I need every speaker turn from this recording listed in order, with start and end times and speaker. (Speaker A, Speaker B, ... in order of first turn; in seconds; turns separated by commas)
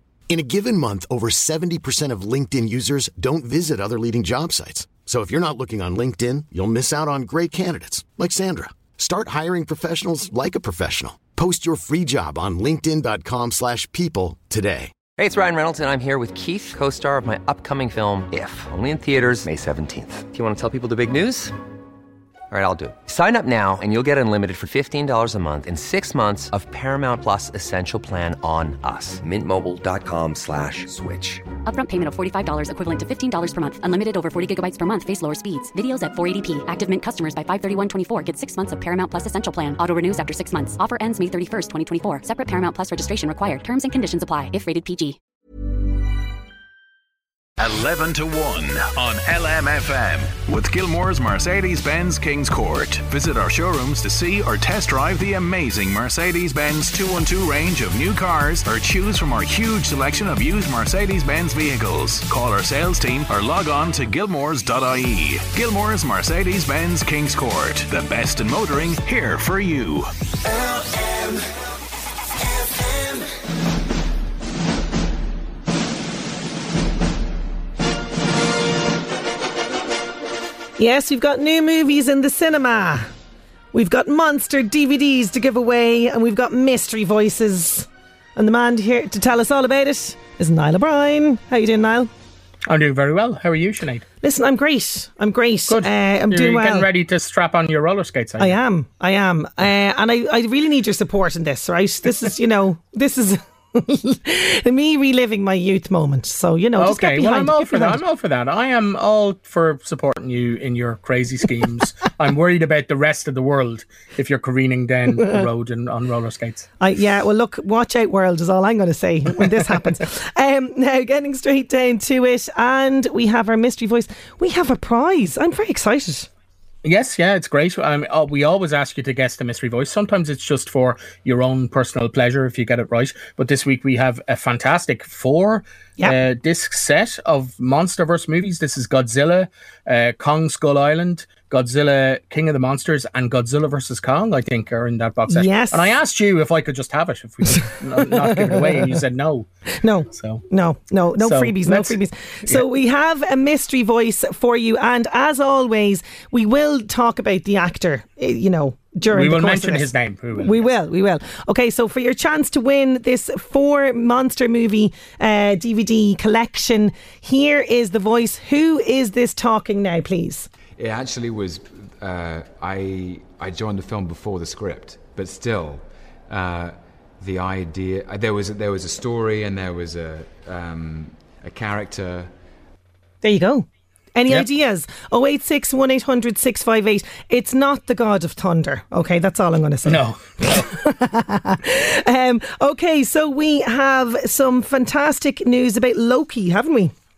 Speaker A: 0.3-14.9, Speaker B: 15.2-21.6, Speaker B: 22.5-31.5, Speaker C: 31.6-45.2, Speaker D: 47.6-70.1, Speaker E: 80.8-83.1, Speaker E: 83.7-92.1, Speaker F: 92.7-94.0, Speaker E: 94.2-96.9, Speaker F: 95.7-98.6, Speaker E: 98.4-108.0, Speaker F: 106.8-116.7, Speaker E: 116.8-126.3, Speaker F: 126.8-149.5, Speaker E: 145.3-146.0, Speaker E: 148.3-148.9, Speaker E: 149.8-170.5, Speaker F: 150.1-150.4, Speaker F: 151.2-152.6, Speaker F: 159.1-160.7, Speaker G: 170.8-182.3, Speaker E: 183.2-196.9, Speaker F: 189.8-190.7